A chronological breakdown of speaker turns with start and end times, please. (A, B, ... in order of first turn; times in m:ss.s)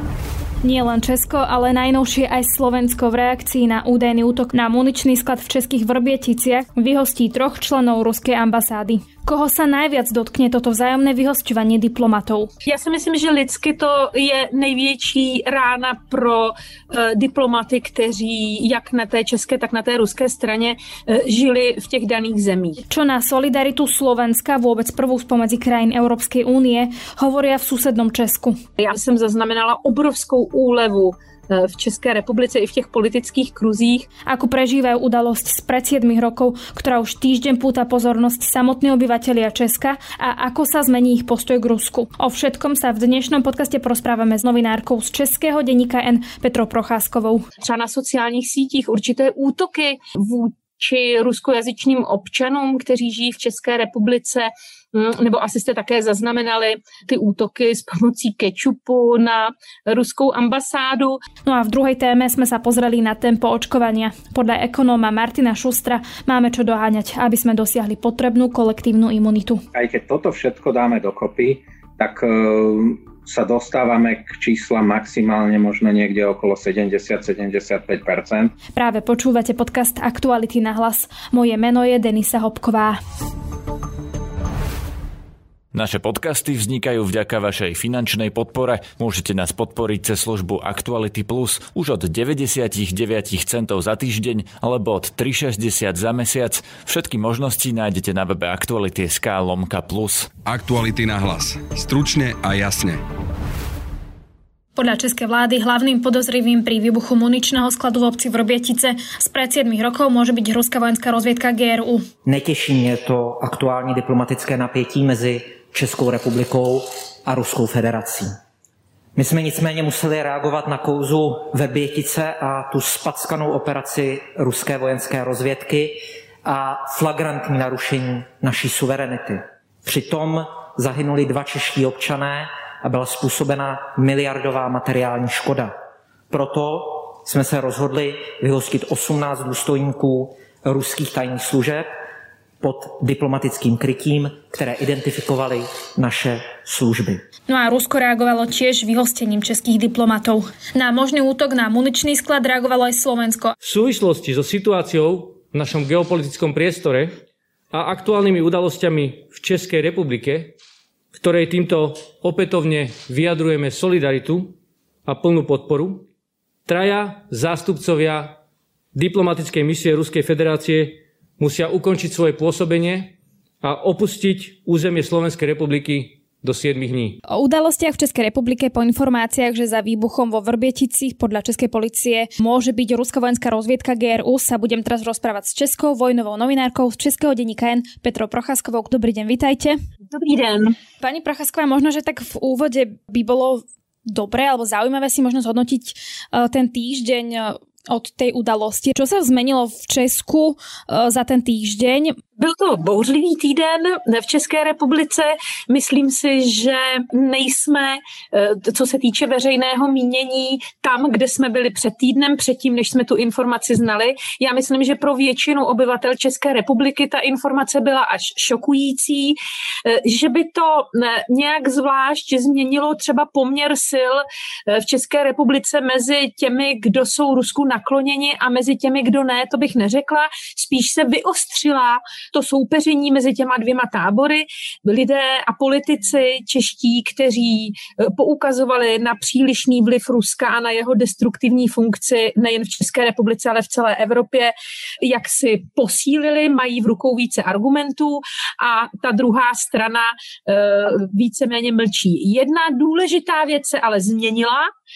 0:00.6-0:12.5 A
0:12.6-0:22.8 B
0:22.9-0:28.6 A
0:28.8-0:34.1 B
0:34.2-0:47.4 A
0:47.6-1:01.2 B
1:01.4-1:09.6 A
1:09.7-1:18.5 C
1:18.8-1:23.0 A
1:25.7-1:40.3 D
1:40.4-1:43.0 E
1:44.8-1:52.1 A
1:52.2-1:58.4 F
1:59.2-2:15.8 F
2:16.3-2:21.9 F
2:22.6-2:27.2 F
2:27.5-2:33.5 A
2:33.6-2:37.2 G
2:37.7-2:40.5 G
2:41.1-2:44.5 G
2:45.1-2:46.1 G
2:46.7-2:48.4 G
2:48.9-2:57.2 G
2:57.3-3:09.8 A
3:10.1-3:10.8 B
3:11.0-3:22.2 A
3:22.4-4:14.7 B